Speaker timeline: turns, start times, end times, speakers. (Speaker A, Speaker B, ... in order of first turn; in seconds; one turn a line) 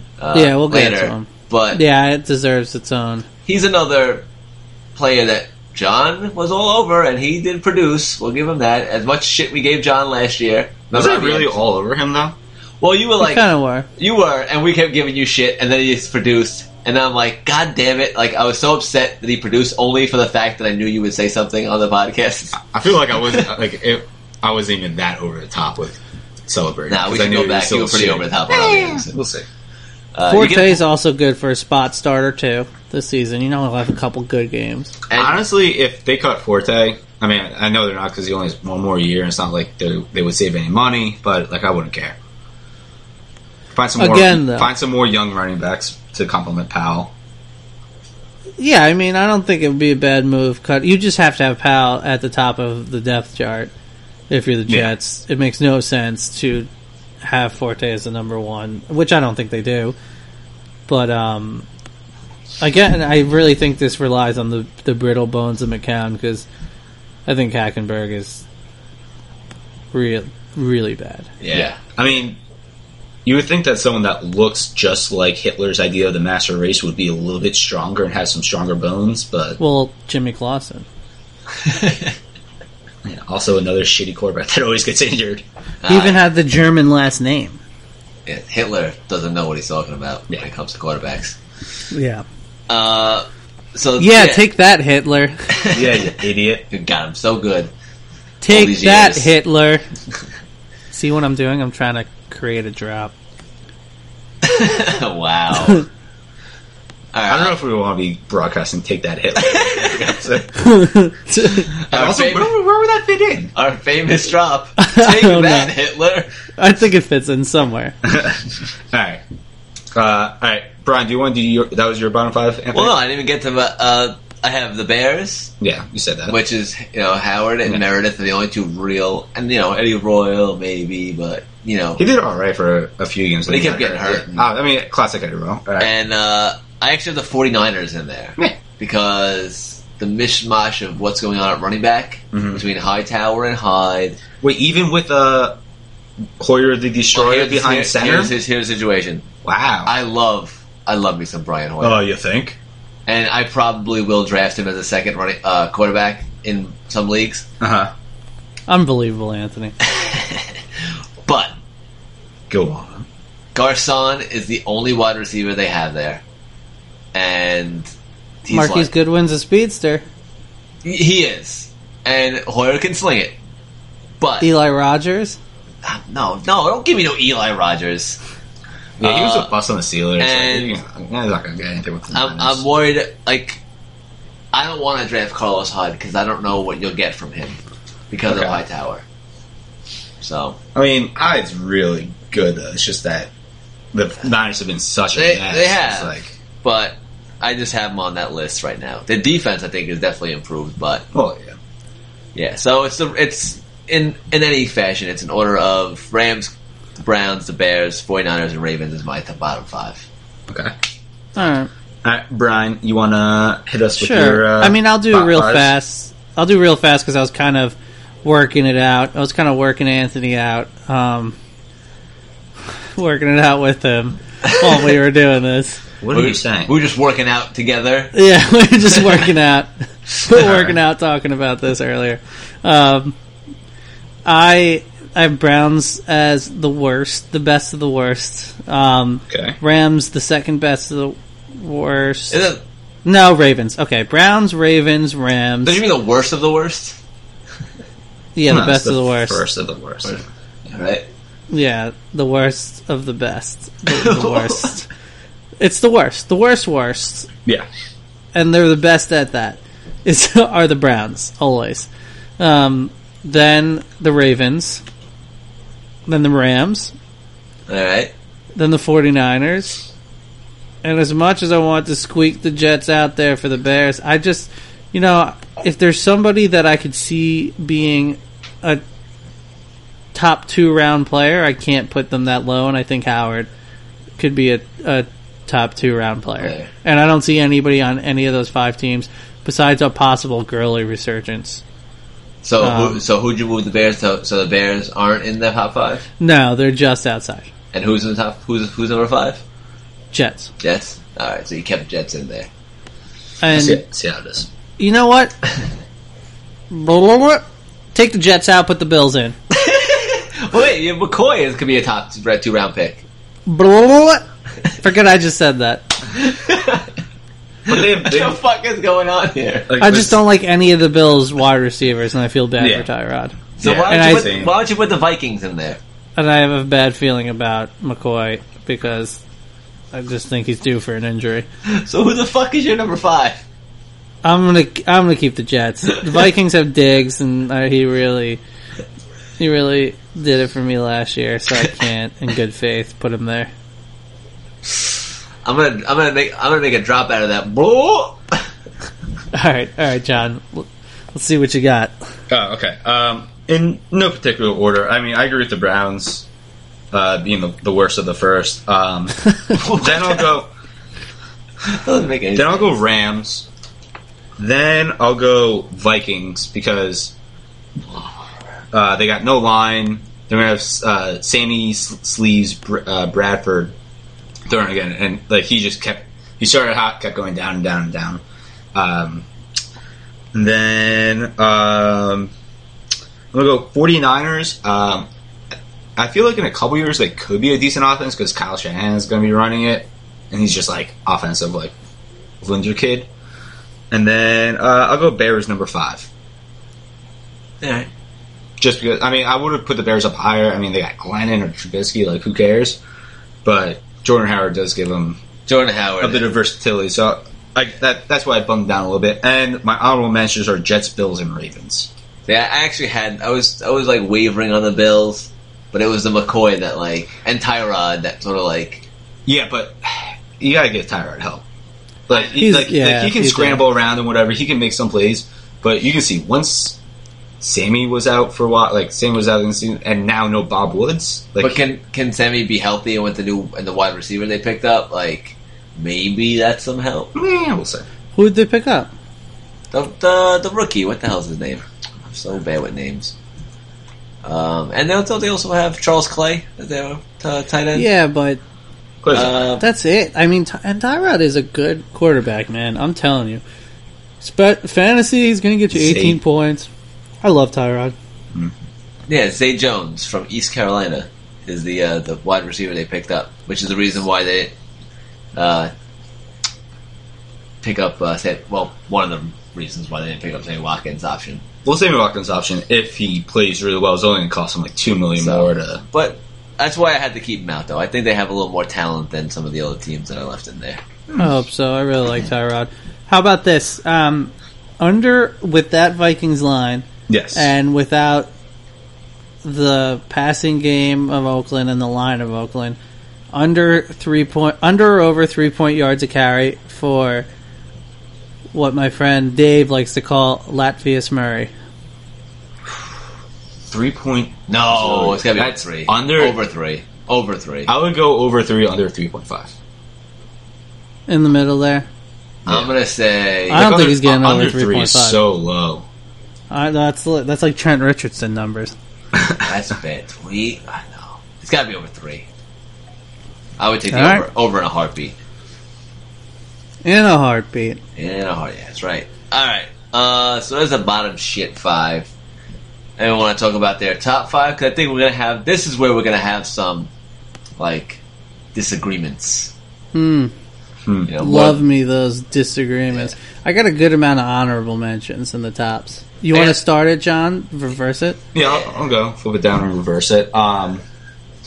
Speaker A: 0.2-1.8
Speaker B: 0.3-3.2
Speaker A: 3.5-4.2
Speaker A: 5.0-11.5
Speaker C: 10.9-12.3
Speaker A: 12.8-22.6
Speaker B: 13.2-13.8
Speaker C: 22.6-29.5
Speaker A: 23.2-23.5
Speaker A: 26.9-29.1
Speaker A: 30.1-30.8
Speaker B: 30.3-34.9
Speaker A: 35.1-35.4
Speaker C: 35.1-42.2
Speaker C: 43.7-47.1
Speaker B: 44.0-44.7
Speaker B: 48.6-53.7
Speaker B: 54.3-56.7
Speaker C: 54.7-54.9
Speaker B: 57.2-59.9
Speaker B: 60.9-61.6
Speaker B: 62.6-66.4
Speaker B: 67.2-68.4
Speaker B: 69.9-71.3
Speaker A: 71.4-71.8
Speaker C: 71.5-72.4
Speaker C: 73.2-79.6
Speaker B: 79.6-80.8
Speaker A: 81.6-82.1
Speaker C: 83.0-85.4
Speaker A: 85.8-86.2
Speaker B: 85.9-87.6
Speaker A: 88.2-91.3
Speaker B: 91.9-92.2
Speaker A: 92.7-94.4
Speaker B: 94.0-95.4
Speaker A: 95.5-96.1
Speaker C: 95.7-96.7
Speaker A: 96.7-97.7
Speaker B: 98.4-99.8
Speaker A: 98.5-99.3
Speaker B: 100.9-103.1
Speaker A: 104.4-105.8
Speaker A: 107.1-107.5
Speaker C: 107.3-110.5
Speaker A: 109.4-110.2
Speaker B: 110.5-111.7
Speaker A: 111.7-112.5
Speaker C: 111.9-113.5
Speaker A: 113.5-116.3
Speaker B: 114.8-115.7
Speaker B: 116.6-118.0
Speaker C: 118.0-119.2
Speaker C: 119.9-123.0
Speaker A: 122.7-125.5
Speaker C: 125.6-126.4
Speaker A: 126.3-132.0
Speaker C: 132.0-135.9
Speaker A: 133.5-134.4
Speaker A: 135.8-144.2
Speaker C: 142.3-142.6
Speaker C: 144.4-145.6
Speaker C: 146.4-148.3
Speaker A: 147.1-149.3
Speaker C: 149.4-149.9
Speaker A: 149.8-152.0
Speaker C: 151.8-152.6
Speaker A: 153.1-157.4
Speaker C: 157.6-157.9
Speaker B: 158.7-159.7
Speaker A: 159.8-161.5
Speaker C: 162.5-163.1
Speaker A: 163.5-166.2
Speaker A: 167.1-167.9
Speaker A: 168.4-168.9
Speaker B: 168.5-170.0
Speaker A: 170.8-173.3
Speaker A: 174.2-174.5
Speaker B: 174.4-175.4
Speaker A: 175.8-178.2
Speaker A: 179.0-179.5
Speaker C: 179.0-182.6
Speaker A: 180.2-180.8
Speaker A: 182.1-183.6
Speaker A: 184.5-187.6
Speaker A: 188.1-189.0
Speaker C: 188.3-188.6
Speaker A: 190.2-190.6
Speaker C: 190.7-193.3
Speaker C: 193.9-196.3
Speaker A: 195.1-201.0
Speaker C: 201.1-201.6
Speaker A: 202.3-210.1
Speaker B: 211.3-211.7
Speaker C: 212.0-215.7
Speaker B: 214.0-221.3
Speaker B: 222.9-225.8
Speaker C: 226.0-226.7
Speaker A: 226.1-228.1
Speaker B: 228.1-233.2
Speaker A: 228.9-229.3
Speaker C: 230.4-230.7
Speaker B: 234.2-242.4
Speaker C: 239.3-239.6
Speaker A: 242.3-242.6
Speaker B: 243.0-245.8
Speaker A: 245.6-247.0
Speaker B: 248.3-249.4
Speaker C: 248.5-250.2
Speaker A: 250.0-251.0
Speaker B: 251.5-254.9
Speaker A: 253.9-254.7
Speaker B: 255.6-257.3
Speaker B: 258.3-264.8
Speaker B: 266.1-266.9
Speaker A: 267.7-268.1
Speaker B: 268.5-269.8
Speaker B: 270.8-278.8
Speaker B: 280.1-283.5
Speaker B: 284.2-291.6
Speaker A: 286.4-286.7
Speaker A: 292.4-296.1
Speaker B: 292.6-293.0
Speaker B: 296.2-297.5
Speaker A: 297.7-299.4
Speaker B: 300.1-300.5
Speaker A: 300.6-302.5
Speaker B: 303.4-303.8
Speaker C: 303.5-304.5
Speaker B: 304.8-305.4
Speaker B: 306.7-309.3
Speaker A: 309.5-313.0
Speaker B: 313.5-314.2
Speaker B: 314.8-316.0
Speaker A: 316.1-316.9
Speaker C: 317.7-318.4
Speaker A: 317.7-319.7
Speaker C: 319.7-320.2
Speaker B: 319.8-323.4
Speaker C: 322.6-322.9
Speaker C: 323.6-324.5
Speaker A: 323.6-325.8
Speaker B: 323.9-324.4
Speaker B: 326.2-329.2
Speaker B: 329.9-331.5
Speaker A: 331.6-333.4
Speaker B: 334.2-338.4
Speaker B: 339.4-343.5
Speaker A: 345.4-348.4
Speaker B: 349.3-351.9
Speaker C: 352.3-356.2
Speaker C: 356.9-360.5
Speaker A: 359.5-360.3
Speaker A: 361.6-362.8
Speaker C: 362.3-363.5
Speaker C: 364.4-367.1
Speaker C: 368.7-373.7
Speaker C: 374.5-378.2
Speaker C: 378.7-379.3
Speaker C: 380.3-382.3
Speaker C: 383.3-385.1
Speaker C: 385.9-391.7
Speaker C: 392.4-393.1
Speaker C: 393.9-396.1
Speaker A: 397.6-397.9
Speaker C: 398.6-402.8
Speaker C: 403.4-405.2
Speaker A: 405.5-406.2
Speaker C: 406.0-411.9
Speaker A: 412.3-418.9
Speaker C: 419.3-421.4
Speaker C: 422.1-426.8
Speaker B: 422.4-423.6
Speaker C: 427.4-431.6
Speaker A: 431.4-437.1
Speaker C: 437.1-437.9
Speaker B: 438.1-438.9
Speaker A: 439.7-443.1
Speaker A: 444.2-447.9
Speaker B: 447.7-448.4
Speaker C: 449.0-449.5
Speaker A: 449.1-449.6
Speaker B: 449.6-453.4
Speaker B: 454.2-456.7
Speaker C: 455.7-456.2
Speaker B: 457.2-457.9
Speaker A: 459.1-464.5
Speaker A: 465.3-465.7
Speaker A: 467.6-471.4
Speaker C: 471.6-475.8
Speaker A: 475.2-480.8
Speaker B: 481.2-488.3
Speaker C: 487.1-487.5
Speaker B: 489.4-492.8
Speaker B: 493.3-497.2
Speaker B: 498.5-501.5
Speaker C: 503.7-506.4
Speaker A: 504.5-507.7
Speaker C: 507.7-509.5
Speaker B: 511.1-511.9
Speaker C: 512.4-512.7
Speaker A: 512.5-513.6
Speaker C: 513.5-515.8
Speaker B: 513.5-515.2
Speaker B: 516.5-518.7
Speaker C: 519.1-519.5
Speaker A: 519.4-522.2
Speaker A: 523.6-525.1
Speaker B: 523.9-524.2
Speaker B: 526.8-527.8
Speaker A: 528.0-532.1
Speaker A: 533.0-536.9
Speaker A: 537.6-538.0
Speaker A: 538.5-539.5
Speaker B: 539.9-540.3
Speaker C: 540.8-541.1
Speaker A: 541.1-541.6
Speaker B: 541.2-548.2
Speaker A: 546.3-546.6
Speaker C: 548.3-550.8